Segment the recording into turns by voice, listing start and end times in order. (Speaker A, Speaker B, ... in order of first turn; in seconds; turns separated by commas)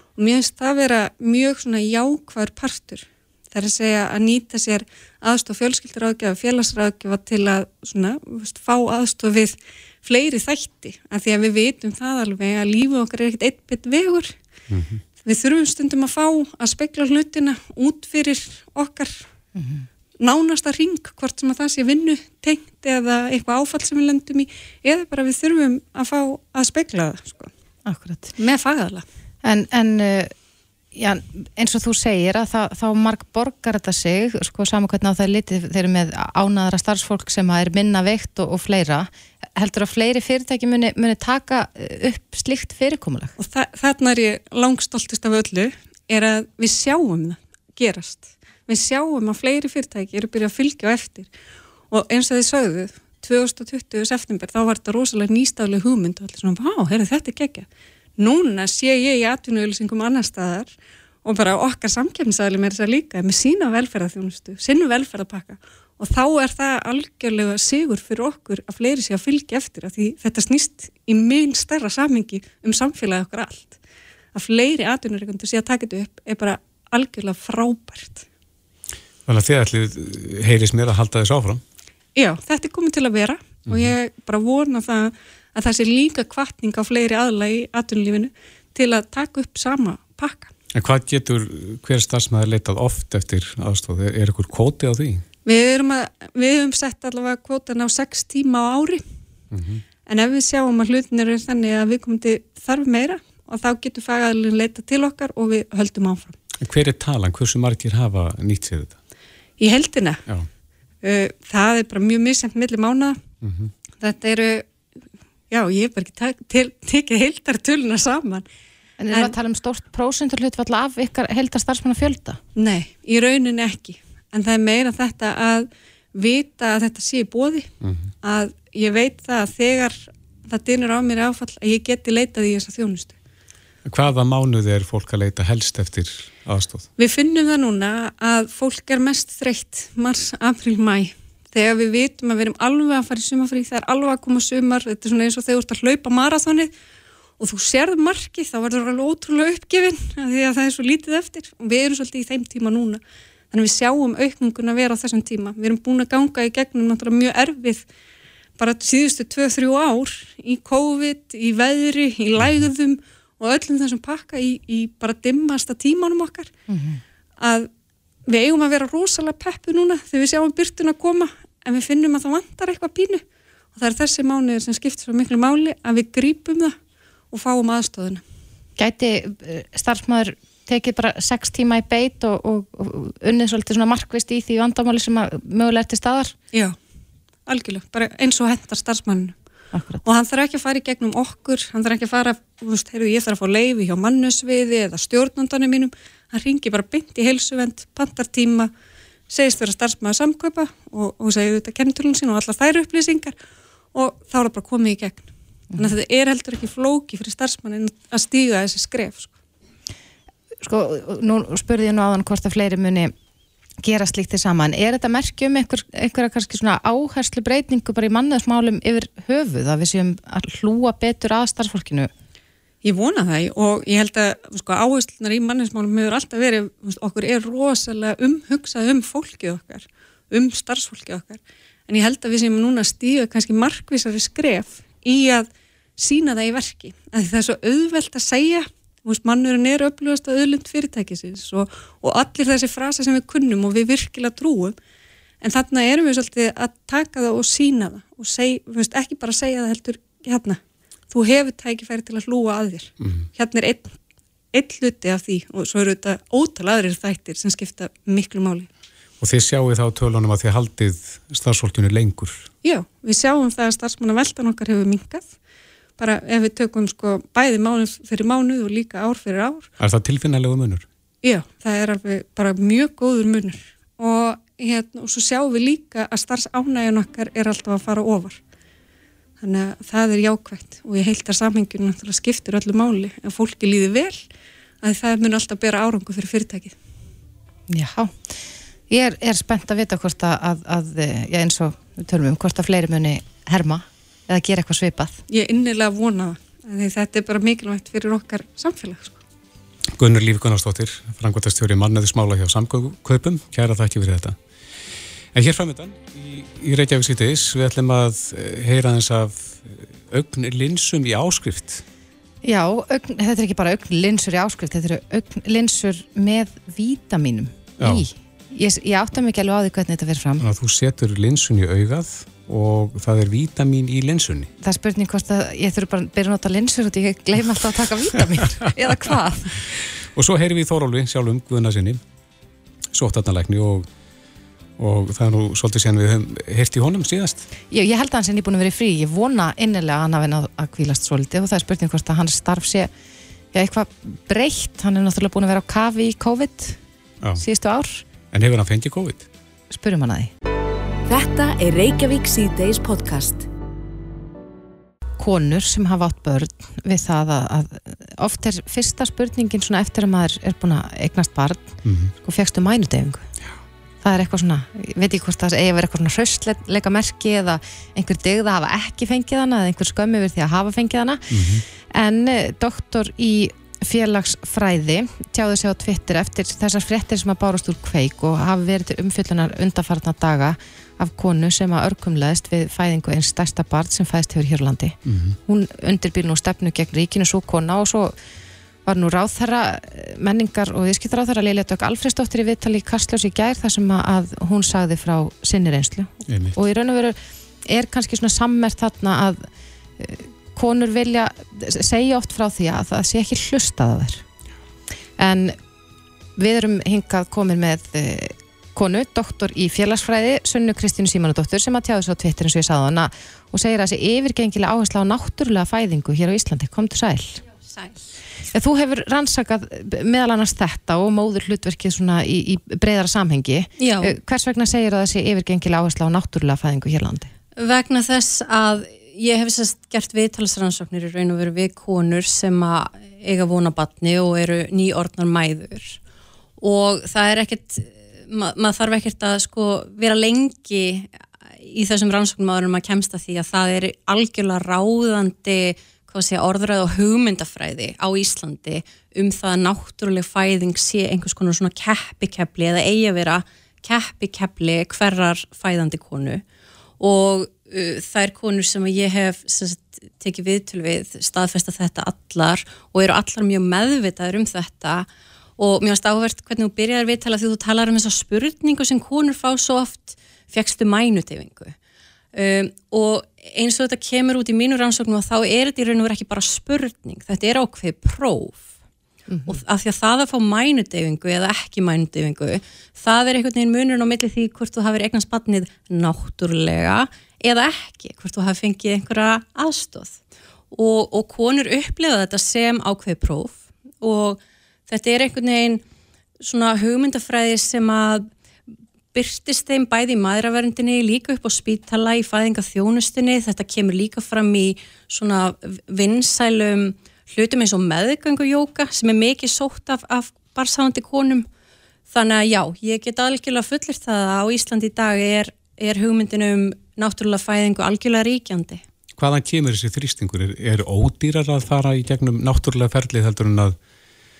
Speaker A: 0.1-14.3, Speaker B: 14.7-15.0, Speaker A: 15.2-19.2, Speaker C: 19.5-19.9, Speaker A: 20.2-27.5, Speaker C: 27.9-28.3, Speaker A: 28.4-29.0, Speaker C: 29.4-30.3, Speaker C: 30.9-43.3, Speaker A: 43.4-51.3, Speaker A: 51.9-60.7, Speaker A: 61.2-73.8, Speaker A: 74.3-78.2, Speaker B: 79.2-81.6, Speaker A: 82.2-90.5, Speaker B: 83.7-83.9, Speaker B: 90.7-95.2, Speaker A: 95.4-99.0, Speaker B: 99.5-99.8, Speaker A: 100.0-106.3, Speaker B: 106.6-108.9, Speaker A: 109.6-110.2, Speaker A: 111.0-113.2, Speaker B: 113.4-113.7, Speaker A: 114.0-114.6, Speaker A: 115.5-118.4, Speaker C: 119.0-122.4, Speaker A: 122.5-127.7, Speaker B: 127.8-128.1, Speaker A: 128.2-133.1, Speaker B: 133.8-136.9, Speaker A: 137.0-146.7, Speaker A: 147.4-157.9, Speaker A: 158.6-166.5, Speaker C: 166.7-167.0, Speaker A: 167.4-167.7, Speaker A: 168.3-173.2, Speaker A: 173.7-176.8, Speaker A: 177.3-178.2, Speaker C: 178.8-186.3, Speaker A: 187.5-189.3, Speaker C: 189.7-190.0, Speaker A: 190.0-198.7, Speaker A: 199.3-203.3, Speaker A: 203.9-209.3, Speaker C: 210.6-213.1, Speaker C: 213.8-222.1, Speaker A: 222.8-244.8, Speaker A: 245.4-253.9, Speaker B: 253.0-253.3, Speaker A: 254.5-258.7, Speaker B: 259.2-262.5, Speaker A: 262.6-265.3, Speaker A: 266.0-269.7, Speaker B: 269.8-270.9, Speaker A: 271.2-278.4, Speaker A: 279.4-284.2, Speaker A: 284.8-286.8, Speaker C: 287.7-288.3, Speaker C: 288.9-295.2, Speaker A: 295.3-299.2, Speaker B: 299.9-304.4, Speaker B: 305.3-311.8, Speaker C: 312.4-320.4, Speaker B: 317.8-318.0, Speaker B: 320.4-324.5, Speaker C: 324.6-329.6, Speaker B: 329.7-332.0, Speaker B: 332.9-333.9, Speaker B: 334.8-337.4, Speaker C: 337.7-342.9, Speaker C: 343.5-346.8, Speaker C: 347.4-348.0, Speaker B: 348.3-349.3, Speaker C: 349.7-350.3, Speaker D: 351.1-353.4, Speaker C: 355.2-363.3, Speaker B: 361.8-362.1, Speaker C: 364.0-388.1, Speaker B: 371.3-371.6, Speaker B: 385.1-385.4, Speaker C: 388.8-399.5, Speaker B: 396.3-396.6, Speaker C: 400.0-404.2, Speaker C: 405.2-405.6, Speaker C: 406.4-417.4, Speaker E: 417.7-418.0, Speaker C: 418.5-427.3, Speaker E: 423.8-424.1, Speaker E: 427.6-436.0, Speaker E: 436.6-456.4, Speaker E: 457.0-465.1, Speaker E: 465.6-471.8, Speaker E: 472.3-478.7, Speaker C: 479.3-479.6, Speaker E: 479.4-490.2, Speaker E: 490.7-495.8, Speaker E: 496.4-498.3, Speaker E: 499.1-511.5, Speaker E: 512.1-518.8, Speaker B: 519.1-523.8